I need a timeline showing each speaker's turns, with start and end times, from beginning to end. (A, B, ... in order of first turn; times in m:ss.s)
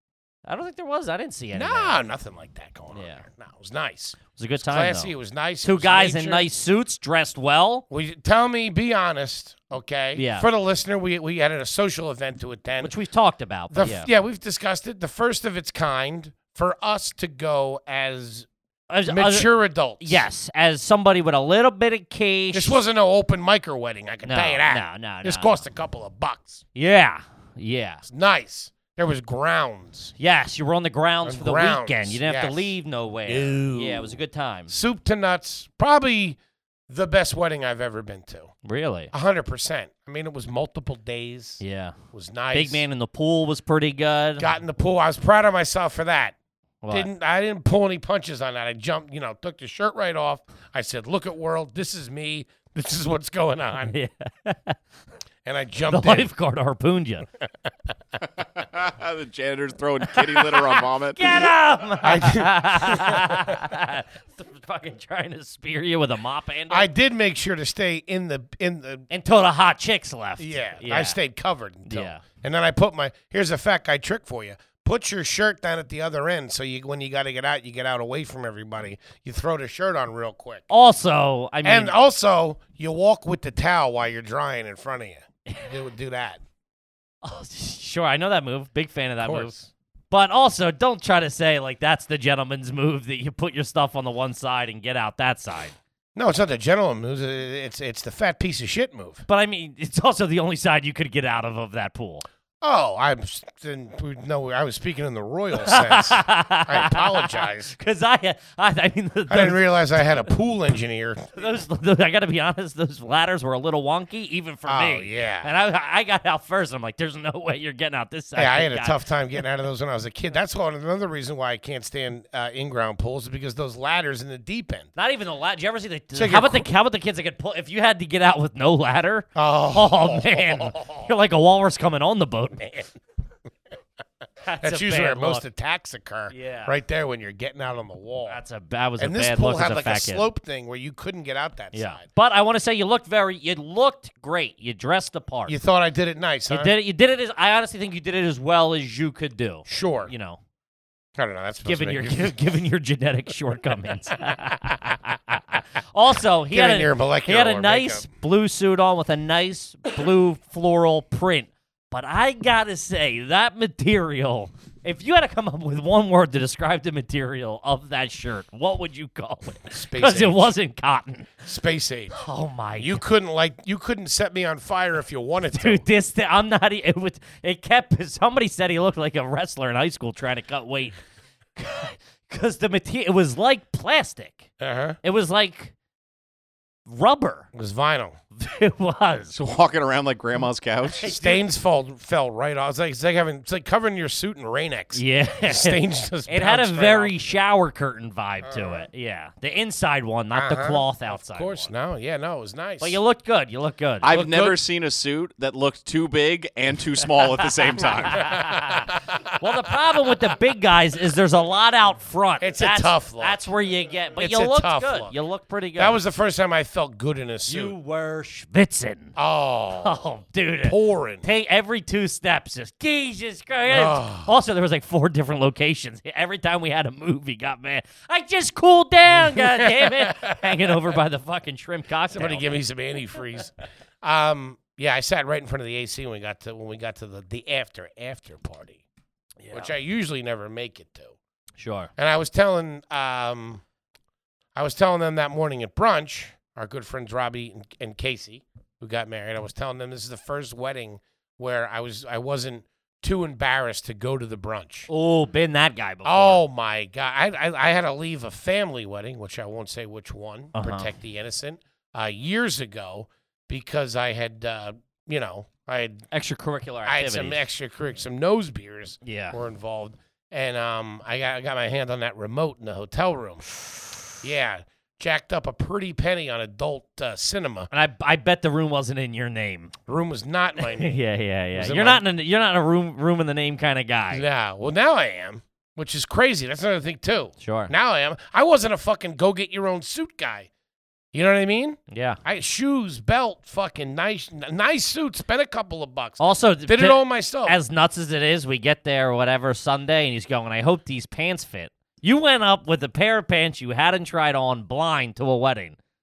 0:00.4-0:02.0 A
0:01.5-0:04.2 B
0:02.9-0:03.2 A
0:04.4-0:07.8 A
0:04.7-0:06.5 B
0:07.9-0:12.9 B
0:10.2-0:10.5 A
0:12.8-0:14.1 A
0:13.7-0:18.5 B
0:18.9-0:22.8 A
0:19.1-0:20.2 B
0:22.5-0:26.6 B
0:24.2-0:25.6 A
0:26.8-0:28.0 A
0:28.0-0:30.1 B
0:30.2-0:34.7 A
0:31.2-0:32.7 B
0:33.3-0:36.4 B
0:36.9-0:38.5 B
0:38.6-0:39.1 A
0:39.1-0:41.6 B
0:41.6-0:42.0 A
0:42.1-0:42.8 B
0:42.5-0:44.4 A
0:44.4-0:46.4 B
0:46.8-0:47.1 A
0:46.9-0:53.9 B
0:53.9-0:54.8 A
0:55.4-0:56.3 B
0:55.9-0:57.2 A
0:58.4-1:01.2 C
1:00.2-1:06.9 A
1:02.0-1:03.6 B
1:06.7-1:09.1 B
1:09.1-1:11.2 A
1:10.4-1:20.6 B
1:11.9-1:12.2 A
1:20.7-1:21.9 A
1:21.6-1:26.4 B
1:27.2-1:29.5 A
1:29.2-1:29.7 B
1:30.1-1:35.8 A
1:36.1-1:39.2 B
1:39.3-1:42.2 A
1:42.6-1:47.7 B
1:45.6-1:50.3 A
1:49.3-1:51.3 B
1:51.4-1:59.0 A
1:54.7-1:55.5 B
1:58.4-2:04.9 B
2:05.0-2:12.8 A
2:06.1-2:06.6 B
2:09.4-2:11.1 B
2:14.4-2:15.4 A
2:14.6-2:18.4 B
2:16.3-2:16.7 A
2:18.3-2:20.2 A
2:19.0-2:22.1 B
2:21.7-2:25.6 A
2:25.5-2:26.7 B
2:26.5-2:30.4 A
2:29.7-2:30.1 B
2:31.2-2:32.5 B
2:31.6-2:51.4 A
2:36.5-2:38.1 B
2:49.7-2:50.5 B
2:51.4-2:52.2 B
2:52.1-2:53.0 A
2:52.8-2:55.8 B
2:55.5-3:01.0 A
3:01.6-3:04.5 A
3:04.6-3:05.0 B
3:05.0-3:05.7 A
3:06.9-3:07.5 A
3:07.5-3:08.2 B
3:08.4-3:09.4 A
3:09.3-3:11.1 C
3:10.9-3:11.5 A
3:11.0-3:17.3 B
3:14.9-3:21.7 A
3:18.4-3:18.9 B
3:20.3-3:23.0 B
3:22.8-3:24.1 A
3:24.0-3:28.4 C
3:24.1-3:24.6 B
3:27.8-3:36.0 A
3:28.2-3:29.4 B
3:32.4-3:33.4 B
3:34.2-3:35.1 B
3:35.8-3:37.8 B
3:37.5-3:39.2 A
3:39.2-3:40.0 B
3:39.8-3:52.5 A
3:40.6-3:41.2 B
3:43.7-3:44.3 B
3:49.3-3:50.8 B
3:52.1-3:58.8 B
3:59.4-3:59.7 A
3:59.5-4:01.1 B
4:01.6-4:01.9 A
4:02.0-4:03.6 B
4:04.6-4:14.9 B
4:14.9-4:16.4 A
4:16.0-4:26.0 B
4:20.5-4:20.9 A
4:26.1-4:27.4 A
4:26.8-4:33.5 B
4:29.0-4:29.4 A
4:34.2-4:37.7 B
4:37.7-4:39.7 A
4:39.9-4:41.0 B
4:40.6-4:44.2 A
4:41.5-4:42.0 B
4:44.1-4:50.5 B
4:47.4-4:47.7 A
4:51.1-4:57.6 B
4:51.9-4:52.2 A
4:56.2-5:05.8 A